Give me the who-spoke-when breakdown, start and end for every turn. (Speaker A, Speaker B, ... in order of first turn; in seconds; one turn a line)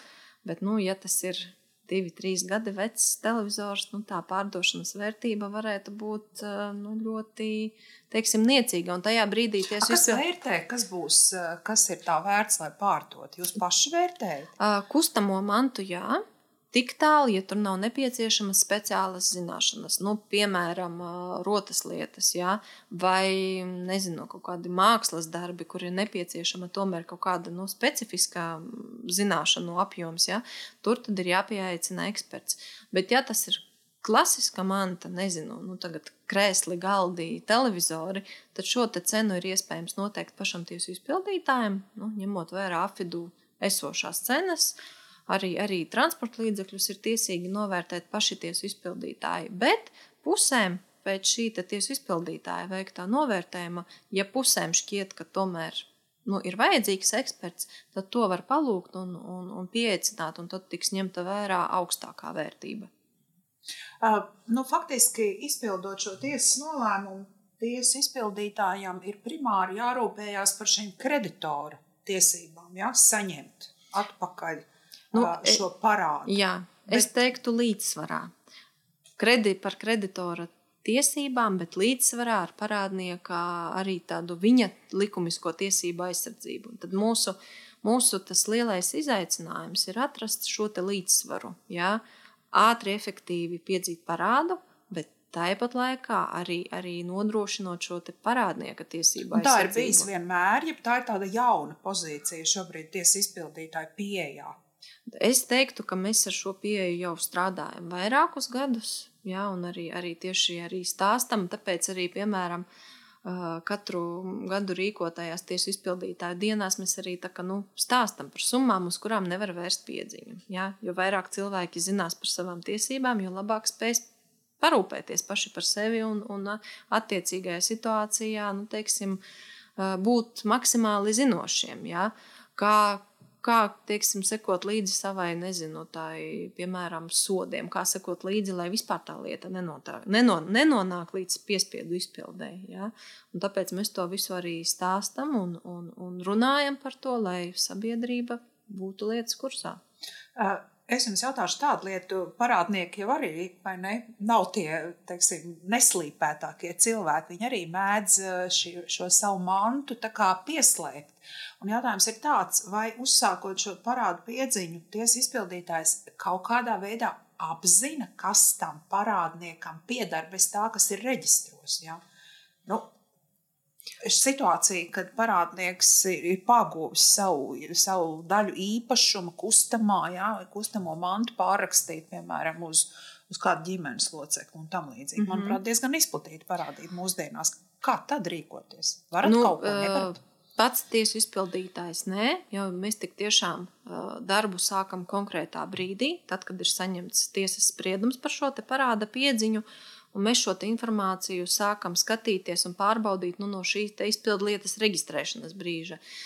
Speaker A: 0.4-10.2
Speaker B: 9.7-14.5
Speaker A: 14.6-44.7
Speaker A: 45.3-62.9
Speaker B: 64.0-77.1
Speaker A: 75.1-75.6
Speaker A: 76.2-78.3
Speaker A: 79.2-100.1
Speaker B: 99.3-104.5
Speaker A: 105.1-112.7
Speaker A: 113.2-124.0
Speaker A: 124.6-129.2
Speaker A: 129.8-149.8
Speaker B: 150.3-172.0
Speaker B: 172.7-172.9
Speaker B: 174.0-190.2
Speaker A: 185.2-185.6
Speaker A: 189.2-206.0